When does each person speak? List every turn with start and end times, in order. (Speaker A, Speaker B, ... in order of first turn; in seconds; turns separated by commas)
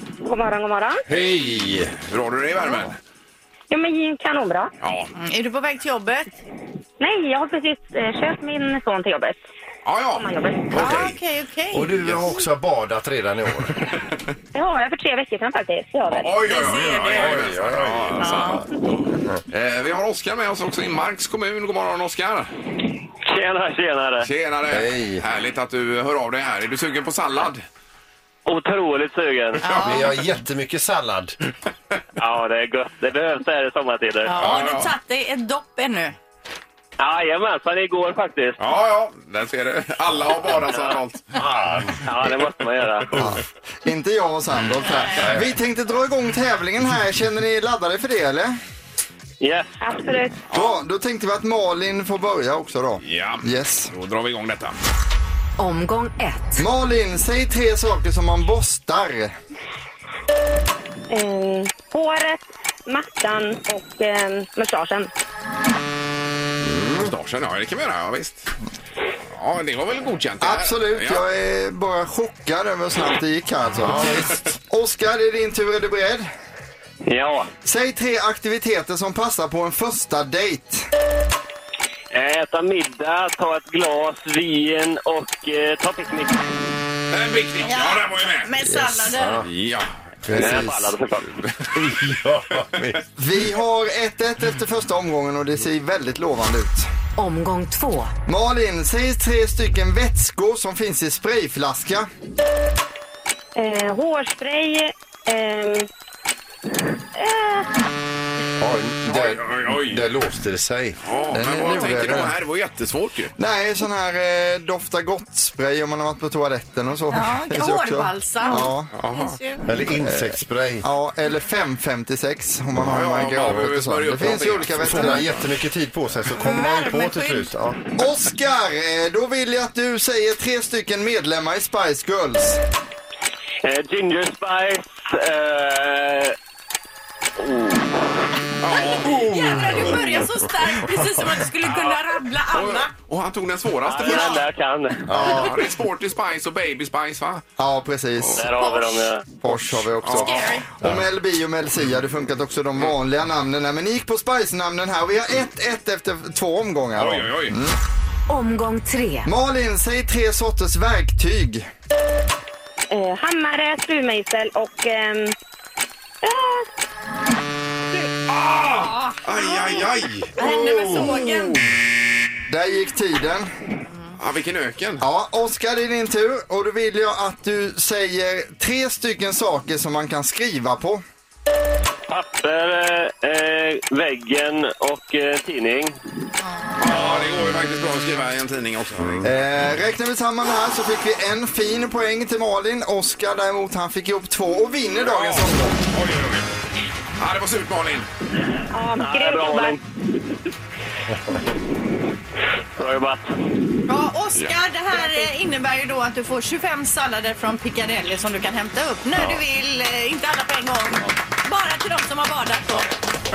Speaker A: 0.2-1.0, Speaker B: 1.1-2.0, Speaker C: 2.0-3.0, Speaker A: 3.7-4.7, Speaker C: 4.8-5.1, Speaker D: 5.2-6.4, Speaker A: 7.0-9.4, Speaker C: 9.8-10.3, Speaker A: 10.2-10.8, Speaker B: 10.7-11.2, Speaker D: 10.7-11.9, Speaker B: 11.7-13.9, Speaker A: 14.5-16.8, Speaker C: 16.1-22.5, Speaker B: 16.5-18.6, Speaker D: 18.2-18.6, Speaker E: 23.2-24.3, Speaker C: 24.2-27.6, Speaker B: 24.7-25.2, Speaker E: 28.5-29.7, Speaker D: 29.6-30.1, Speaker B: 29.7-31.4, Speaker E: 32.2-34.5, Speaker D: 34.2-36.2, Speaker C: 34.4-34.9, Speaker E: 37.0-38.6, Speaker C: 38.6-41.5, Speaker B: 41.4-42.0, Speaker E: 42.0-43.1, Speaker F: 43.2-48.6, Speaker B: 45.2-45.5, Speaker E: 49.4-49.8, Speaker A: 49.8-50.5, Speaker C: 50.5-50.8, Speaker F: 50.5-53.9, Speaker C: 53.0-54.8, Speaker G: 55.6-56.6, Speaker F: 56.6-59.3, Speaker A: 61.1-65.1, Speaker B: 66.6-67.1, Speaker C: 67.0-68.5, Speaker C: 69.3-71.2, Speaker F: 70.4-76.3, Speaker B: 73.8-74.5, Speaker E: 77.1-77.5, Speaker F: 77.7-80.9, Speaker E: 82.1-86.5, Speaker C: 87.1-88.5, Speaker D: 87.6-89.4, Speaker B: 88.6-89.5, Speaker C: 89.4-90.7, Speaker B: 90.2-90.9, Speaker E: 90.3-91.4, Speaker C: 91.4-91.8, Speaker B: 91.7-93.0, Speaker F: 93.2-96.9, Speaker G: 97.2-98.1, Speaker F: 98.3-102.1, Speaker A: 103.5-105.9, Speaker A: 107.2-107.7, Speaker B: 108.6-111.0, Speaker C: 109.1-110.0, Speaker C: 111.0-113.3, Speaker F: 111.3-112.3, Speaker F: 113.4-118.9, Speaker D: 117.1-119.7, Speaker C: 118.9-119.4, Speaker B: 119.7-120.9, Speaker F: 119.9-125.3, Speaker C: 122.8-125.5, Speaker B: 124.8-127.8, Speaker D: 126.3-127.5, Speaker F: 128.0-132.6, Speaker E: 133.6-136.4, Speaker E: 137.4-138.1, Speaker C: 138.6-140.2, Speaker D: 138.7-142.9, Speaker B: 139.4-139.9, Speaker C: 142.5-144.4, Speaker E: 143.9-145.4, Speaker D: 144.0-144.4, Speaker B: 145.1-145.4, Speaker C: 145.1-147.4, Speaker F: 147.6-148.5, Speaker E: 148.4-149.3, Speaker D: 148.6-148.8, Speaker F: 149.4-157.8, Speaker C: 149.5-150.5, Speaker D: 150.1-150.7, Speaker C: 157.0-157.6, Speaker G: 158.3-159.3, Speaker F: 159.3-161.7, Speaker A: 162.9-165.3, Speaker A: 166.2-166.7, Speaker C: 168.3-170.3, Speaker D: 169.4-169.8, Speaker D: 170.4-171.6, Speaker F: 170.4-171.3, Speaker B: 170.6-171.1, Speaker F: 172.5-173.5, Speaker C: 174.2-175.0, Speaker F: 175.0-181.0, Speaker E: 182.1-186.0, Speaker C: 186.8-189.3, Speaker B: 189.0-189.3, Speaker F: 189.2-195.8, Speaker C: 195.0-196.5, Speaker C: 197.2-198.1, Speaker A: 198.7-199.8, Speaker E: 198.9-199.8, Speaker E: 202.8-203.2, Speaker D: 203.9-212.9, Speaker B: 209.2-209.4